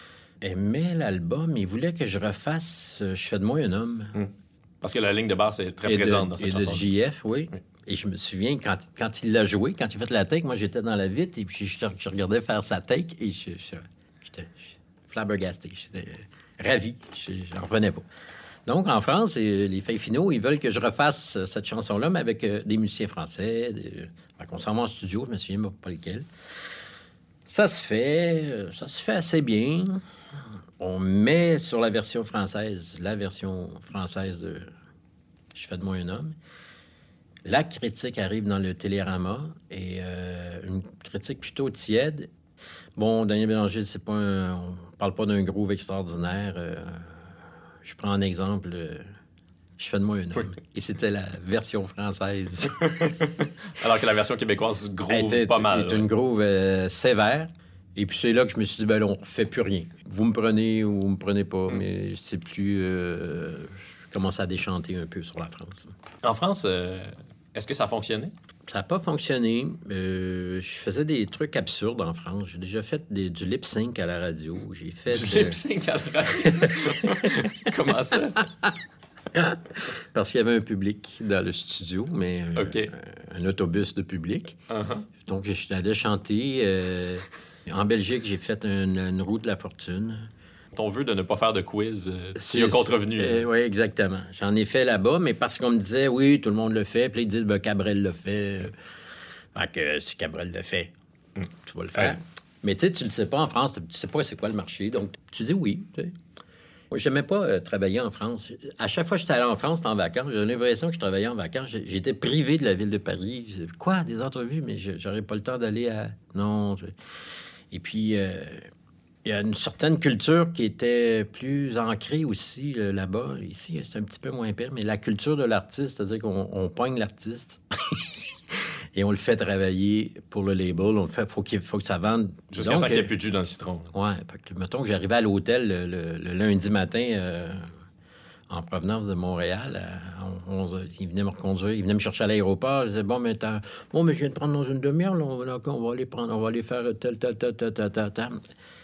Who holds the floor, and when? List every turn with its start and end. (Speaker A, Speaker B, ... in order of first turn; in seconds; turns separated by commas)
Speaker A: 0.4-4.2, Speaker B: 4.2-6.9, Speaker A: 5.8-18.1, Speaker A: 18.7-26.3, Speaker A: 27.5-30.0, Speaker A: 30.8-34.7, Speaker A: 35.5-36.4, Speaker A: 37.5-42.3, Speaker A: 43.0-47.3, Speaker A: 47.8-49.1, Speaker A: 49.8-53.0, Speaker B: 52.8-56.1, Speaker A: 55.1-65.9, Speaker B: 66.2-68.3, Speaker A: 68.7-75.6, Speaker B: 75.1-78.5, Speaker A: 76.4-77.4, Speaker A: 79.3-84.6, Speaker B: 82.6-82.9, Speaker B: 84.7-85.1, Speaker A: 85.2-90.3, Speaker B: 90.7-93.5, Speaker A: 92.4-98.8, Speaker A: 99.5-100.9, Speaker A: 101.5-106.2, Speaker A: 106.9-116.9, Speaker A: 117.7-118.7, Speaker A: 119.2-133.1, Speaker B: 132.5-133.9, Speaker A: 133.9-137.7, Speaker A: 138.5-148.4